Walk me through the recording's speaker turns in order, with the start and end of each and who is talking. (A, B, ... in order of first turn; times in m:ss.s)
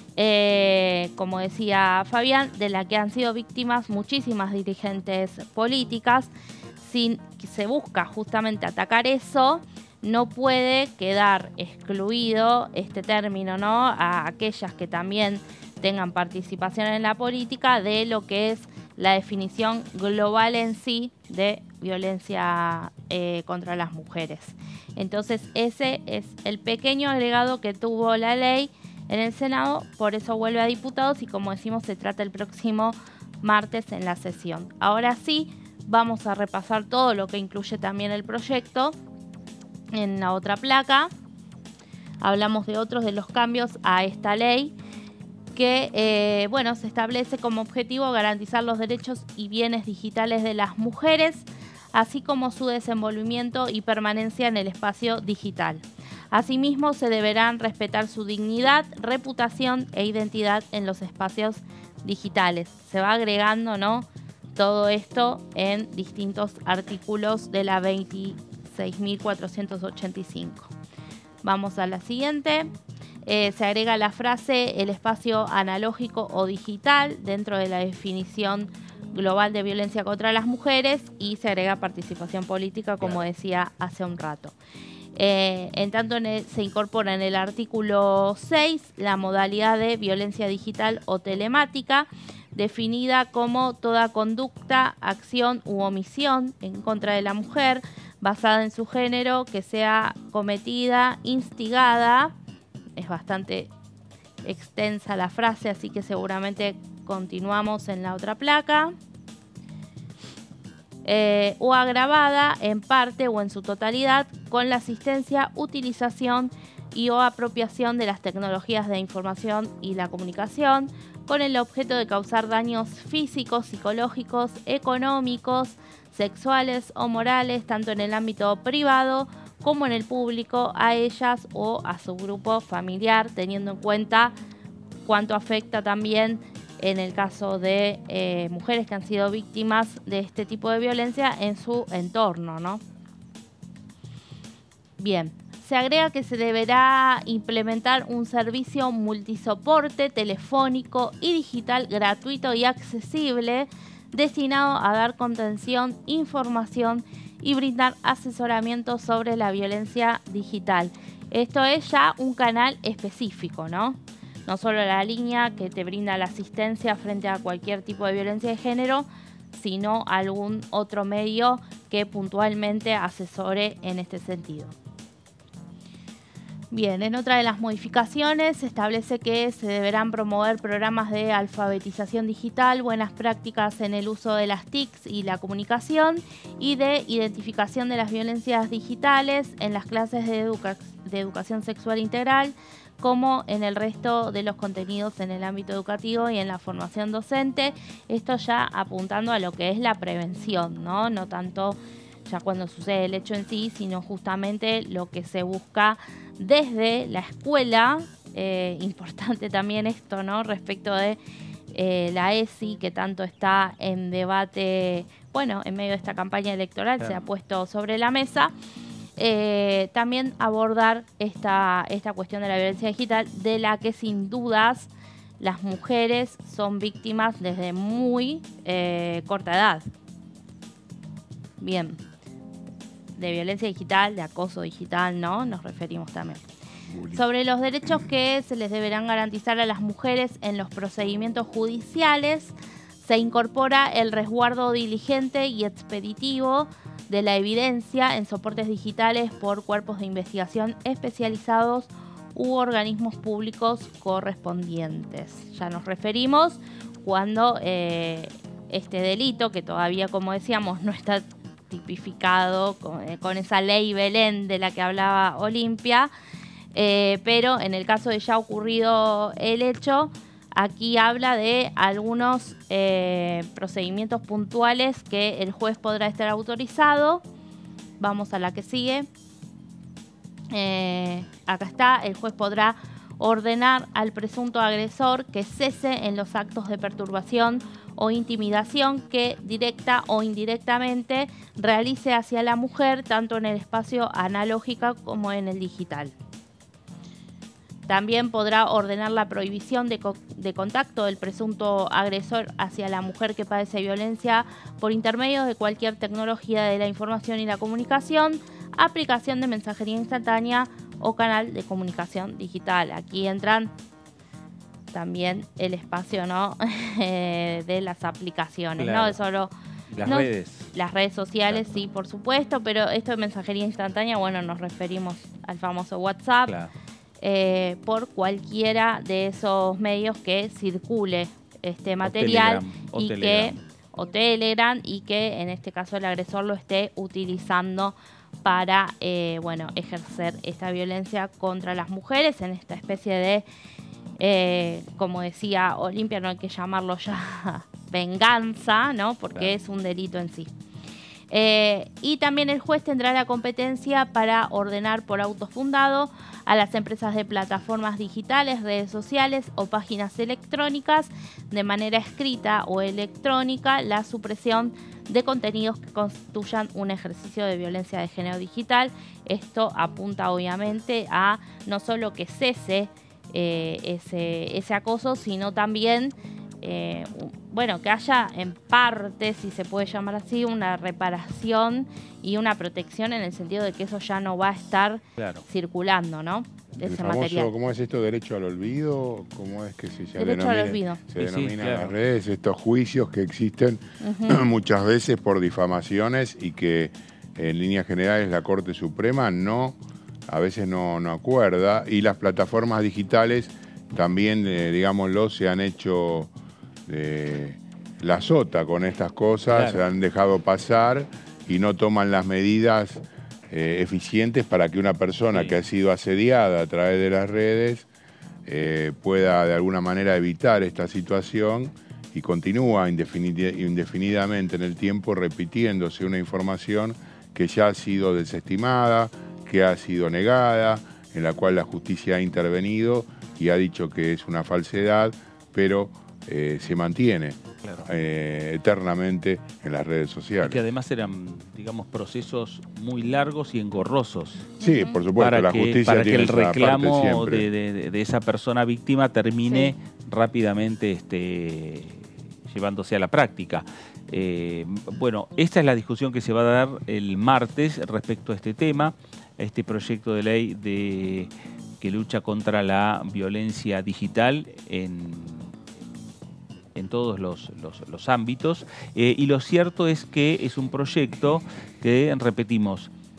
0:00.2-0:06.3 A
0:06.8-0:39.0 A
0:39.9-0:41.1 A
0:42.2-0:44.7 A
0:45.6-1:10.7 A
1:11.4-1:12.7 A
1:13.3-1:24.5 A
1:25.2-1:42.3 A
1:43.0-1:43.7 A
1:44.4-1:48.9 A
1:51.0-2:14.3 A
2:15.1-2:22.8 A
2:25.0-2:54.7 A
2:56.7-3:31.2 A
3:31.7-3:38.5 A
3:39.2-3:49.8 A
3:51.6-3:52.0 A
3:53.2-3:56.4 A
3:57.1-4:26.1 A
4:26.7-4:37.2 A
4:38.0-4:39.1 A
4:40.5-4:56.1 A
4:57.9-5:13.7 A
5:14.9-5:19.5 A
5:18.8-5:19.2 B
5:19.9-5:20.7 B
5:20.0-5:26.5 A
5:21.5-5:21.8 B
5:27.2-5:43.5 A
5:32.0-5:33.6 B
5:44.2-5:50.5 A
5:51.3-6:27.5 A
6:25.2-6:25.4 B
6:26.8-6:46.3 C
6:30.2-6:31.0 A
6:31.2-6:31.9 B
6:34.0-6:34.4 A
6:46.9-6:57.9 C
6:49.5-6:49.8 B
6:55.3-6:55.6 B
6:58.5-7:20.6 C
7:20.4-7:24.5 B
7:24.6-7:27.5 C
7:24.6-7:25.0 A
7:25.2-7:41.3 B
7:41.8-7:45.6 B
7:46.8-7:52.9 B